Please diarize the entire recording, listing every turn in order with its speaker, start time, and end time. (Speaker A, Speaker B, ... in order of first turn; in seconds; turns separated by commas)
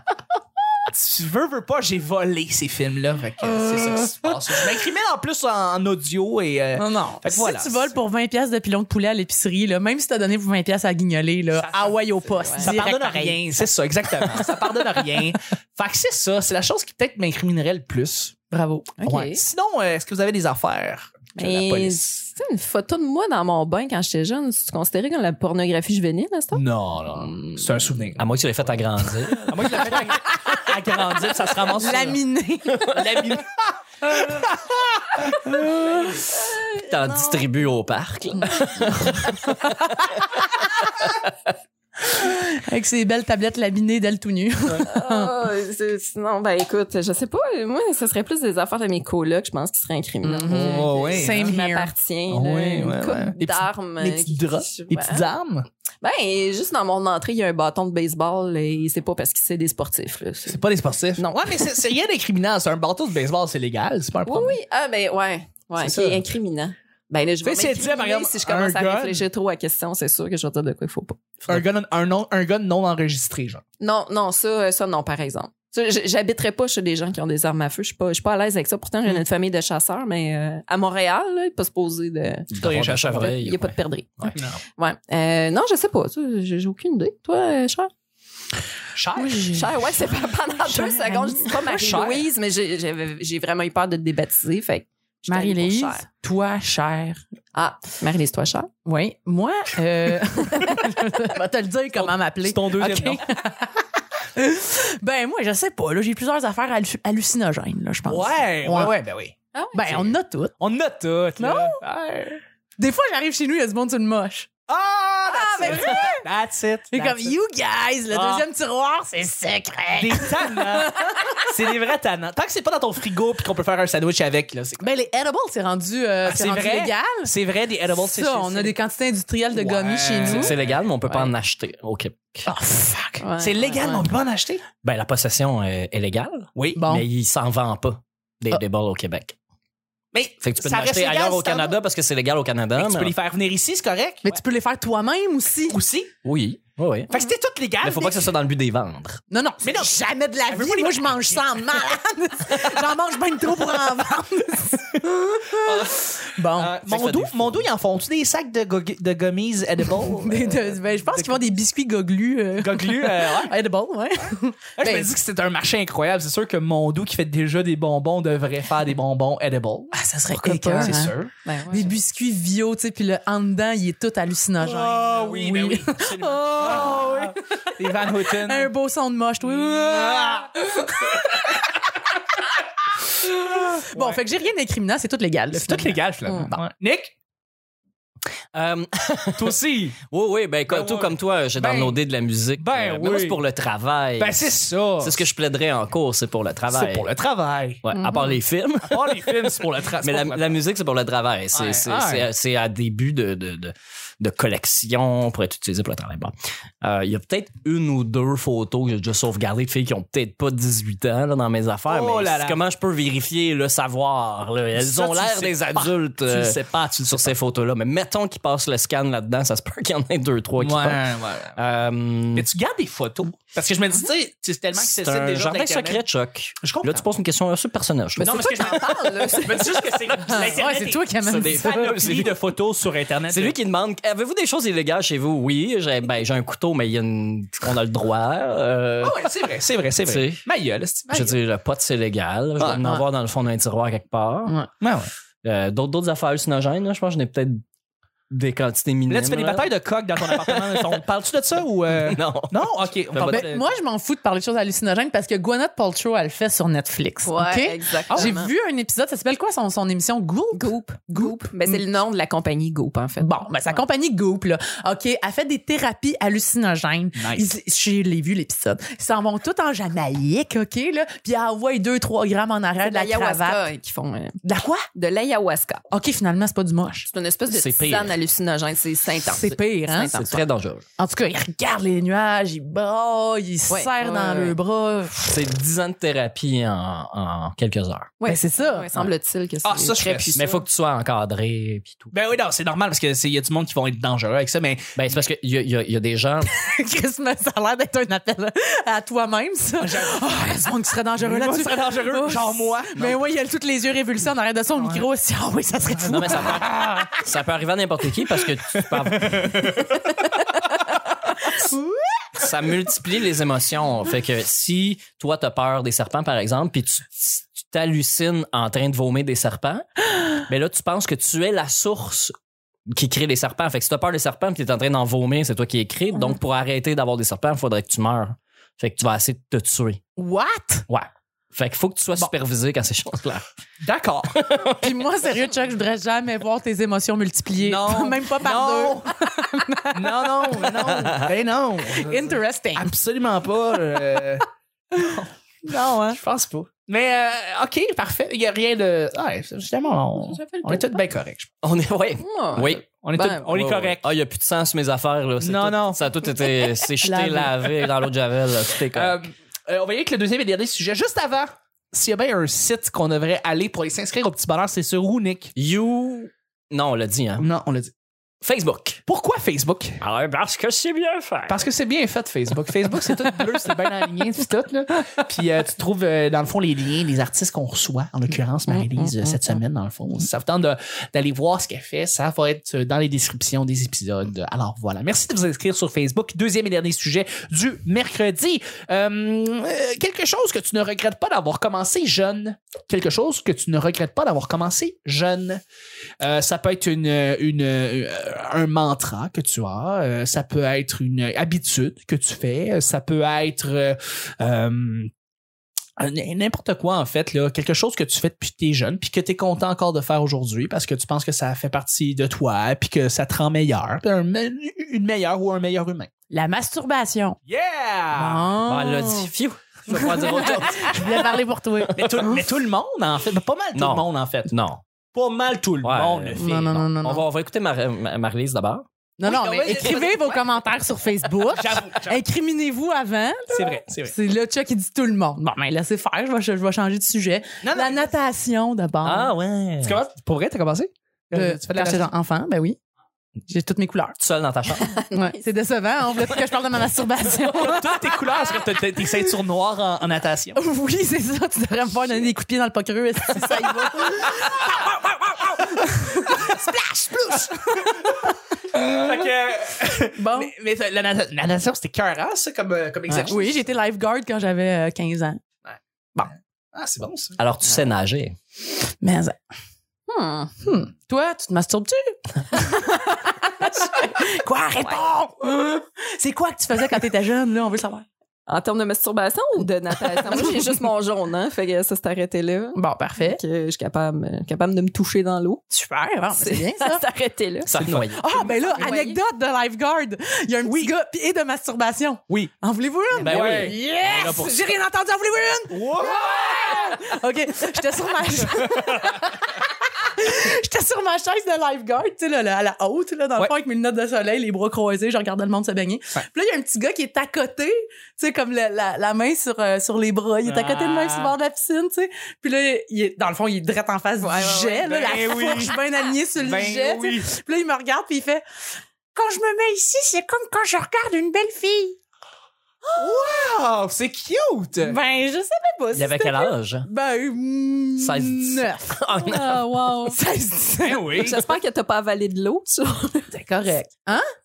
Speaker A: 0.9-7.9, Speaker B: 3.6-4.3, Speaker B: 6.8-13.6, Speaker A: 11.5-18.4, Speaker C: 12.4-12.7, Speaker B: 18.5-19.0, Speaker C: 19.0-19.4, Speaker A: 19.0-22.0, Speaker C: 21.4-26.6, Speaker A: 26.5-28.2, Speaker C: 27.1-27.6, Speaker D: 28.2-29.5, Speaker A: 29.4-32.2, Speaker B: 29.8-30.6, Speaker B: 31.7-33.0, Speaker A: 32.8-34.4, Speaker C: 36.2-37.5, Speaker D: 36.8-39.3, Speaker B: 38.6-39.9, Speaker B: 42.1-45.3, Speaker C: 44.8-55.2, Speaker B: 50.2-51.9, Speaker A: 50.5-51.6, Speaker A: 52.3-55.6, Speaker C: 56.0-60.6, Speaker A: 60.5-64.6, Speaker C: 61.2-61.9, Speaker C: 64.2-71.2, Speaker A: 65.8-66.2, Speaker A: 67.4-69.2, Speaker A: 71.5-73.6, Speaker C: 73.8-82.5, Speaker D: 82.5-84.6, Speaker A: 82.6-83.3, Speaker C: 83.1-87.9, Speaker A: 88.9-89.4, Speaker B: 89.2-90.0, Speaker C: 89.5-96.1, Speaker B: 90.6-91.5, Speaker A: 91.7-92.3, Speaker B: 95.3-97.2, Speaker C: 97.5-98.7, Speaker B: 98.8-103.8, Speaker A: 101.9-103.2, Speaker B: 104.3-108.9, Speaker A: 108.0-109.3, Speaker C: 109.5-109.8, Speaker B: 109.7-110.5, Speaker A: 109.9-112.4, Speaker B: 111.4-111.8, Speaker B: 112.8-114.5, Speaker A: 114.7-117.4, Speaker B: 115.3-116.2, Speaker B: 116.9-121.3, Speaker A: 118.1-118.5, Speaker A: 119.9-124.9, Speaker B: 124.8-127.3, Speaker A: 126.2-128.8, Speaker B: 127.9-130.5, Speaker A: 129.5-130.9, Speaker D: 130.2-132.5, Speaker B: 132.4-133.2, Speaker C: 133.2-134.1, Speaker A: 133.4-134.6, Speaker D: 134.8-139.3, Speaker A: 136.5-136.8, Speaker B: 136.7-137.1, Speaker A: 140.1-141.8, Speaker D: 140.4-143.1, Speaker A: 142.8-144.3, Speaker B: 144.2-145.8, Speaker A: 145.7-146.1, Speaker D: 146.2-147.1, Speaker A: 147.1-148.3, Speaker D: 147.8-149.2, Speaker B: 149.3-156.8, Speaker A: 149.6-151.6, Speaker A: 155.6-161.5, Speaker D: 156.8-157.7, Speaker B: 159.9-165.1, Speaker A: 162.6-163.5, Speaker A: 164.8-171.3, Speaker B: 169.9-171.1, Speaker C: 171.4-172.0, Speaker B: 171.7-181.2, Speaker A: 174.6-178.7, Speaker A: 179.6-180.5, Speaker A: 183.4-184.2, Speaker B: 183.5-186.0, Speaker A: 185.5-187.1, Speaker D: 188.5-189.5, Speaker A: 189.3-190.0, Speaker D: 190.1-197.0, Speaker A: 190.7-192.0, Speaker A: 192.6-193.4, Speaker A: 194.2-195.2, Speaker A: 196.7-197.8, Speaker D: 197.8-221.0, Speaker C: 197.9-198.3, Speaker A: 198.9-200.5, Speaker A: 201.5-202.3, Speaker A: 211.9-212.6, Speaker A: 214.7-217.3, Speaker A: 220.6-221.6, Speaker D: 221.6-222.4, Speaker A: 222.3-226.0, Speaker D: 224.7-228.3, Speaker A: 226.6-227.1, Speaker C: 228.2-229.8, Speaker A: 228.2-233.5, Speaker B: 229.6-232.1, Speaker D: 231.2-232.3, Speaker D: 233.3-239.2, Speaker A: 239.0-241.4, Speaker D: 240.0-240.4, Speaker D: 241.1-244.5, Speaker A: 242.6-243.0, Speaker A: 244.8-245.1, Speaker D: 245.4-247.6, Speaker D: 248.3-249.7, Speaker A: 249.1-253.6, Speaker D: 250.2-251.0, Speaker D: 252.0-253.5, Speaker B: 253.3-261.8, Speaker C: 257.2-258.5, Speaker A: 258.1-258.4, Speaker C: 260.5-263.8, Speaker B: 263.2-273.7, Speaker A: 267.1-267.5, Speaker C: 272.8-274.4, Speaker B: 274.4-274.9, Speaker C: 274.9-275.8, Speaker B: 275.9-277.1, Speaker C: 277.1-280.4, Speaker D: 277.5-278.1, Speaker B: 279.2-280.2, Speaker D: 280.2-280.8, Speaker B: 281.0-285.5, Speaker C: 283.7-284.6, Speaker D: 285.3-288.1, Speaker C: 288.2-290.6, Speaker B: 288.2-289.1, Speaker A: 289.6-290.5, Speaker D: 290.3-292.1, Speaker A: 292.1-294.9, Speaker D: 294.9-296.5, Speaker B: 296.4-306.6, Speaker A: 299.8-300.2, Speaker A: 301.2-302.9, Speaker D: 302.9-303.2, Speaker A: 304.8-305.1, Speaker A: 305.9-307.1, Speaker D: 306.1-309.6, Speaker A: 309.2-309.9, Speaker B: 311.6-311.9, Speaker D: 312.4-319.8, Speaker D: 320.4-322.3, Speaker D: 322.9-330.0, Speaker B: 330.2-330.9, Speaker D: 330.9-333.4, Speaker A: 333.8-334.4, Speaker D: 334.4-334.7, Speaker B: 334.8-340.9, Speaker A: 337.6-339.1, Speaker A: 339.9-345.3, Speaker B: 341.8-342.9, Speaker B: 345.6-346.2, Speaker A: 346.1-351.5, Speaker C: 350.2-350.9, Speaker D: 351.6-359.2, Speaker C: 352.2-353.5, Speaker A: 353.0-354.1, Speaker A: 355.4-356.0, Speaker B: 357.1-357.4, Speaker A: 358.9-365.5, Speaker D: 365.6-367.5, Speaker A: 367.4-367.9, Speaker D: 368.4-369.0, Speaker A: 369.0-370.0, Speaker D: 370.0-371.6, Speaker A: 371.5-395.6, Speaker A: 396.2-405.1, Speaker A: 406.0-416.1, Speaker B: 416.3-417.4, Speaker A: 417.4-418.5, Speaker B: 418.1-419.3, Speaker D: 418.6-421.9, Speaker B: 419.9-422.4, Speaker A: 420.9-421.2, Speaker A: 421.9-424.5, Speaker D: 423.7-424.8, Speaker A: 425.1-426.8, Speaker D: 425.8-428.9, Speaker B: 426.3-427.3, Speaker B: 429.2-439.3, Speaker A: 429.2-430.4, Speaker A: 431.4-432.2, Speaker A: 433.5-434.1, Speaker A: 437.6-438.1, Speaker D: 439.0-440.0, Speaker A: 439.8-442.1, Speaker B: 441.3-442.8, Speaker B: 443.5-444.1, Speaker D: 444.2-444.9, Speaker C: 444.7-445.5, Speaker B: 445.1-449.3, Speaker A: 447.4-450.6, Speaker B: 450.5-458.4, Speaker A: 458.7-463.6, Speaker B: 460.1-460.5, Speaker B: 463.1-465.4, Speaker A: 465.6-467.4, Speaker D: 467.4-468.4, Speaker B: 468.8-469.4, Speaker C: 470.1-470.5, Speaker B: 470.6-478.0, Speaker C: 474.8-475.1, Speaker C: 478.5-485.6, Speaker B: 480.3-480.6, Speaker B: 482.7-483.4, Speaker B: 485.7-487.0, Speaker C: 486.3-487.7, Speaker D: 487.6-488.2, Speaker A: 487.8-488.9, Speaker B: 488.1-518.4, Speaker C: 488.6-489.2, Speaker A: 490.6-490.9, Speaker A: 493.1-494.6, Speaker D: 493.2-493.8, Speaker A: 495.7-497.0, Speaker A: 510.4-511.3, Speaker C: 514.2-514.9, Speaker A: 514.8-517.3, Speaker B: 519.1-522.0, Speaker B: 522.8-523.3, Speaker A: 523.0-525.0, Speaker B: 524.8-531.1, Speaker D: 525.9-526.9, Speaker D: 528.0-529.7, Speaker A: 530.8-531.5, Speaker C: 531.1-533.4, Speaker B: 533.3-534.2